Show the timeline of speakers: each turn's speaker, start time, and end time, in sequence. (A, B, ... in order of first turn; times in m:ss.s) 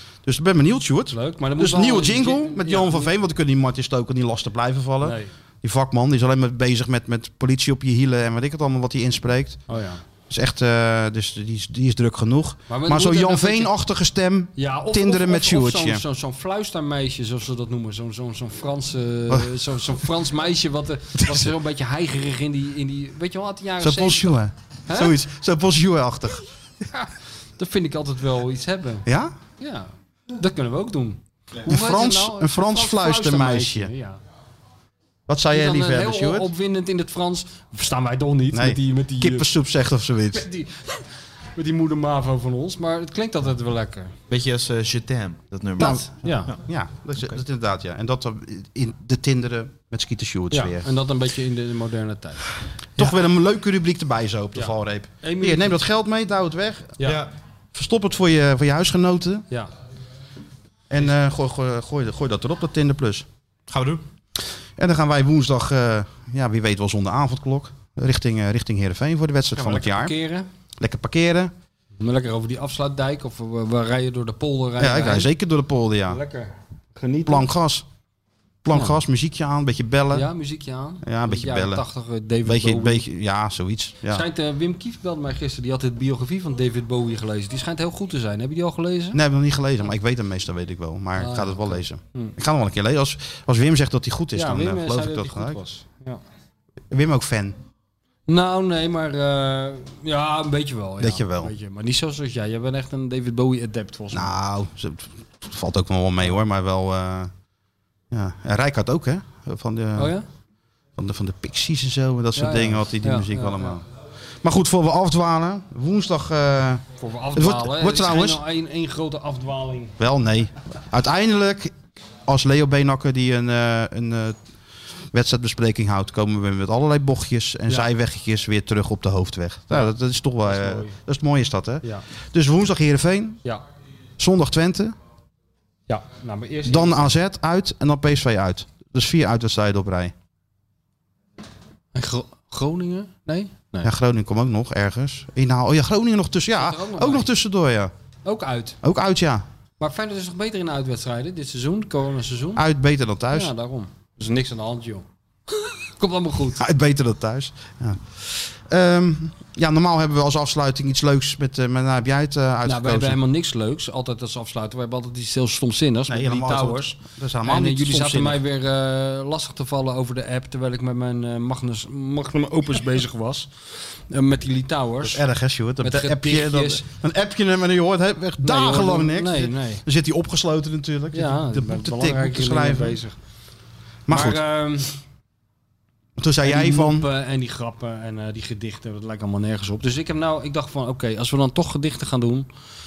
0:00.2-0:09.6 A
0:01.1-0:03.1 B
0:05.0-0:05.3 B
0:09.7-0:10.0 B
0:10.3-0:16.0 A
0:12.7-0:13.7 B
0:14.6-0:25.2 B
0:21.2-0:21.5 A
0:23.8-0:26.5 A
0:26.9-0:29.0 B
0:29.0-0:29.3 A
0:29.6-0:34.2 B
0:31.6-0:33.9 A
0:35.3-0:36.5 A
0:35.5-0:39.5 B
0:38.5-0:40.4 A
0:40.3-0:41.0 B
0:41.6-0:44.1 B
0:44.3-0:46.6 C
0:45.8-0:46.5 B
0:45.8-0:50.9 A
0:50.5-0:53.1 B
0:53.0-0:57.0 A
0:54.5-0:55.8 B
0:57.0-0:57.2 B
0:57.0-0:57.3 C
0:57.7-0:59.4 A
1:00.9-1:03.2 A
1:03.7-1:04.0 C
1:04.8-1:10.1 A
1:09.5-1:10.4 B
1:10.8-1:11.5 A
1:12.0-1:15.3 B
1:14.8-1:16.2 A
1:16.1-1:17.5 B
1:17.2-1:17.8 A
1:18.6-1:20.3 A
1:20.1-1:23.0 B
1:21.0-1:21.8 A
1:22.4-1:24.2 A
1:24.1-1:29.2 B
1:29.1-1:35.6 A
1:31.2-1:32.3 B
1:34.3-1:36.2 B
1:36.9-1:37.6 A
1:38.3-1:44.3 B
1:41.0-1:41.5 A
1:44.1-1:47.3 A
1:48.1-1:50.1 A
1:50.0-1:50.2 B
1:51.0-1:53.8 A
1:52.4-1:53.8 B
1:54.4-1:58.4 A
1:57.0-2:00.0 B
2:00.0-2:01.7 A
2:02.2-2:04.4 A
2:05.1-2:13.4 A
2:10.4-2:10.9 B
2:14.2-2:15.0 A
2:15.9-2:17.0 B
2:16.6-2:20.1 A
2:21.9-2:23.9 B
2:23.8-2:27.9 A
2:26.6-2:27.3 B
2:28.2-2:28.8 B
2:28.8-2:29.4 A
2:29.8-2:32.6 B
2:32.6-2:33.5 A
2:33.3-2:35.0 B
2:36.0-2:36.6 B
2:36.6-2:43.2 A
2:42.6-2:55.2 B
2:46.1-2:48.4 A
2:55.0-3:03.0 A
2:55.8-2:56.8 B
2:58.4-2:59.8 B
3:01.1-3:03.1 B
3:04.1-3:04.4 A
3:04.1-3:04.9 B
3:06.2-3:07.1 A
3:06.4-3:12.5 B